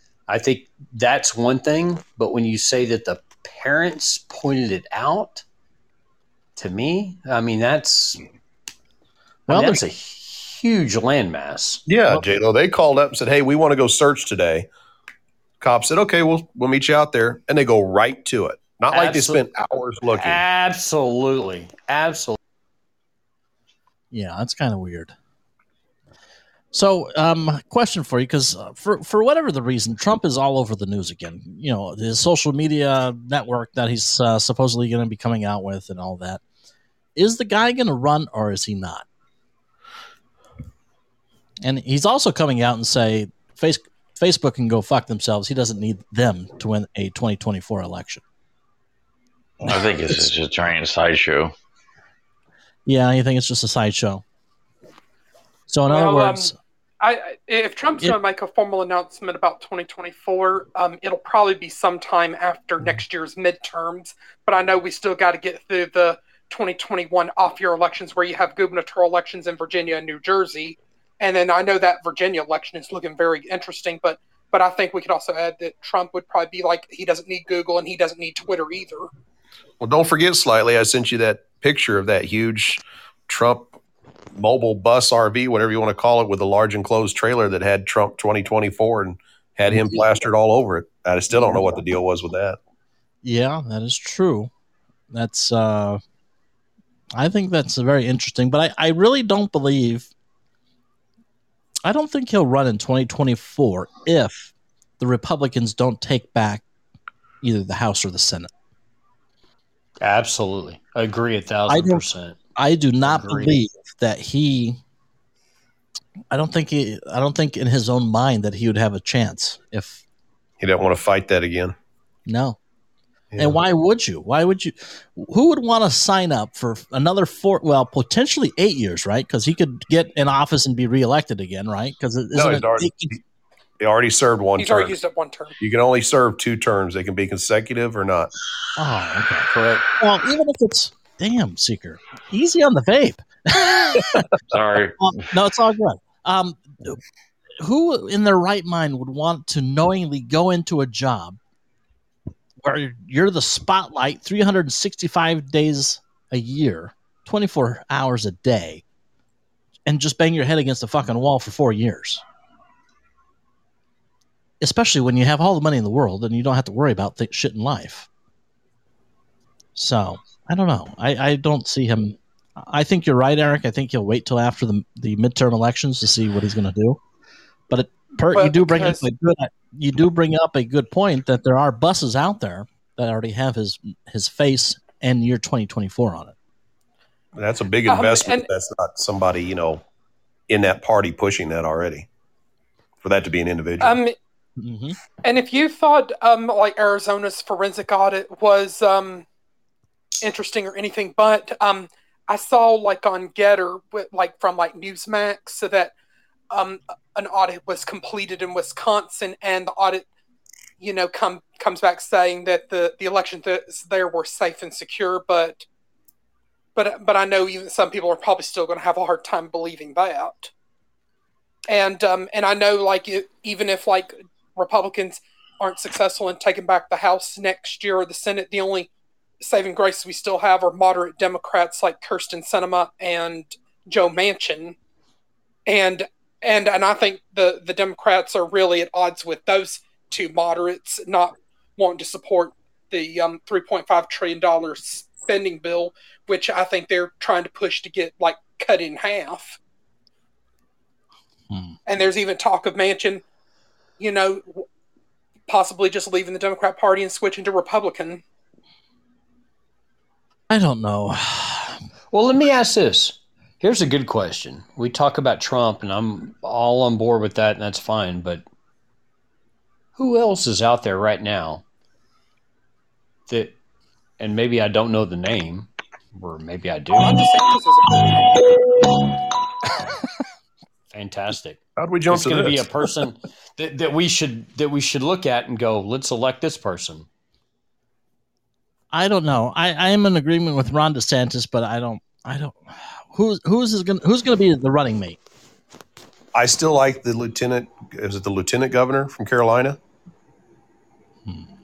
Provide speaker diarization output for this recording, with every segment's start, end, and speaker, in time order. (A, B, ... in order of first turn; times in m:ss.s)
0:00.3-0:05.4 A
0:06.6-0:08.2 A
0:09.5-0:09.8 B
0:09.5-0:11.8 A
0:11.9-0:14.7 C
0:15.6-0:20.4 C
0:18.9-0:19.4 A
0:20.1-0:22.4 A
0:24.1-0:25.1 B
0:26.7-0:36.4 B
0:37.2-0:39.1 B
0:41.6-0:48.2 B
0:49.6-0:51.5 D
0:52.9-0:54.2 B
0:55.7-0:56.5 B
0:55.9-0:56.5 E
0:57.0-1:19.1 E
1:19.8-1:23.7 C
1:24.3-1:32.6 C
1:29.7-1:30.0 B
1:33.2-1:34.5 B
1:35.1-1:36.0 B
1:37.2-1:40.1 B
1:41.8-1:46.6 B
1:47.4-1:48.5 B
1:50.0-1:52.4 A
1:51.7-1:52.0 B
1:52.6-1:54.8 B
1:53.0-1:53.6 A
1:56.3-2:00.0 B
2:00.6-2:01.8 C
2:02.3-2:02.6 B
2:03.3-2:03.6 C
2:03.4-2:13.2 B
2:12.3-2:13.2 C
2:13.8-2:15.0 C
2:14.6-2:15.6 E
2:15.6-2:18.3 C
2:18.8-2:24.3 B
2:19.5-2:19.8 A
2:24.5-2:25.2 D
2:25.0-2:27.0 B
2:27.6-2:31.4 B
2:32.6-2:38.8 B
2:39.9-2:42.2 B
2:44.6-2:48.1 B
2:49.8-2:57.0 B
2:57.7-3:06.4 B
2:58.4-2:59.0 E
3:07.4-3:09.8 C
3:07.9-3:08.5 E
3:10.5-3:12.1 C
3:13.0-3:14.0 C
3:13.8-3:14.2 E
3:14.6-3:15.0 B
3:15.2-3:19.3 E
3:20.2-3:25.9 E
3:26.5-3:30.1 E
3:30.8-3:35.7 E
3:36.8-3:40.5 E
3:41.7-3:54.8 E
3:55.7-4:09.6 E
4:11.5-4:11.8 B
4:11.9-4:13.2 E
4:14.0-4:14.6 E
4:15.5-4:18.2 E
4:20.5-4:21.8 B
4:22.1-4:28.4 A
4:30.0-4:31.6 A
4:33.3-4:33.6 A
4:34.2-4:37.2 A
4:36.9-4:38.3 E
4:40.9-4:47.1 A
4:41.8-4:42.7 C
4:48.9-4:55.2 B
4:56.4-4:59.8 C